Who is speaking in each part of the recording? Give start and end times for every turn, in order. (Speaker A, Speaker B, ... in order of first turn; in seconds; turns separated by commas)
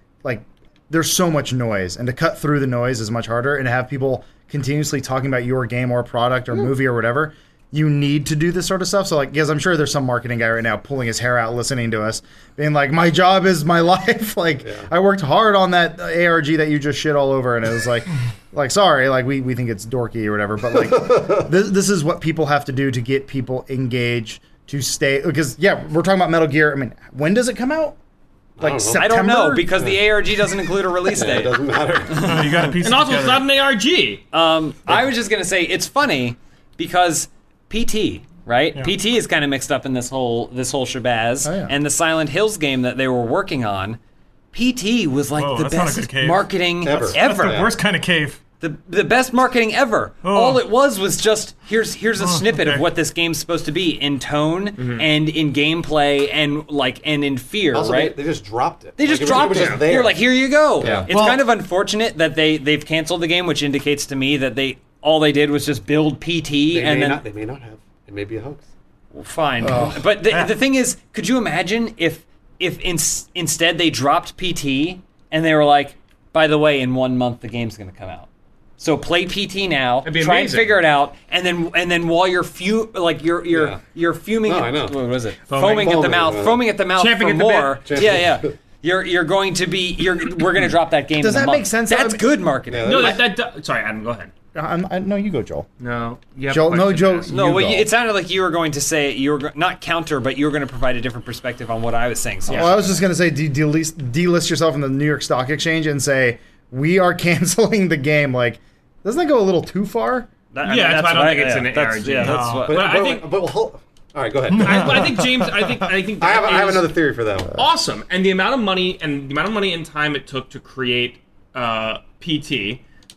Speaker A: 0.2-27.9, Speaker B: 20.9-21.5, Speaker B: 28.6-29.1, Speaker A: 28.6-29.8, Speaker C: 28.9-32.7, Speaker B: 31.1-32.5, Speaker D: 32.2-33.5, Speaker E: 32.8-34.2, Speaker C: 34.3-44.0, Speaker A: 41.4-41.7, Speaker C: 44.5-47.7, Speaker D: 45.4-46.5, Speaker B: 46.8-47.7, Speaker D: 47.1-48.5, Speaker C: 48.6-58.2, Speaker D: 50.2-50.6, Speaker D: 52.2-52.8, Speaker E: 54.8-55.1, Speaker B: 57.7-61.1, Speaker C: 59.0-67.2, Speaker E: 59.2-59.9, Speaker D: 61.1-61.5, Speaker B: 66.7-68.6, Speaker C: 69.1-78.3, Speaker A: 69.6-69.9, Speaker D: 69.7-70.5, Speaker C: 78.8-93.2, Speaker E: 80.0-80.8, Speaker B: 83.5-83.8, Speaker B: 84.4-85.0, Speaker E: 85.5-86.0, Speaker B: 85.7-86.7, Speaker E: 87.0-87.8, Speaker B: 87.8-88.5, Speaker A: 91.2-92.3, Speaker B: 92.7-93.3, Speaker E: 92.8-94.3, Speaker A: 94.5-95.7, Speaker E: 95.8-97.3, Speaker A: 96.5-97.9, Speaker C: 97.3-102.8, Speaker E: 102.5-102.9, Speaker A: 102.5-110.3, Speaker C: 110.5-113.0, Speaker E: 110.6-113.3, Speaker D: 112.2-112.7, Speaker B: 112.7-115.0, Speaker D: 114.5-115.7, Speaker E: 114.6-116.9, Speaker B: 116.2-117.5, Speaker E: 117.5-122.8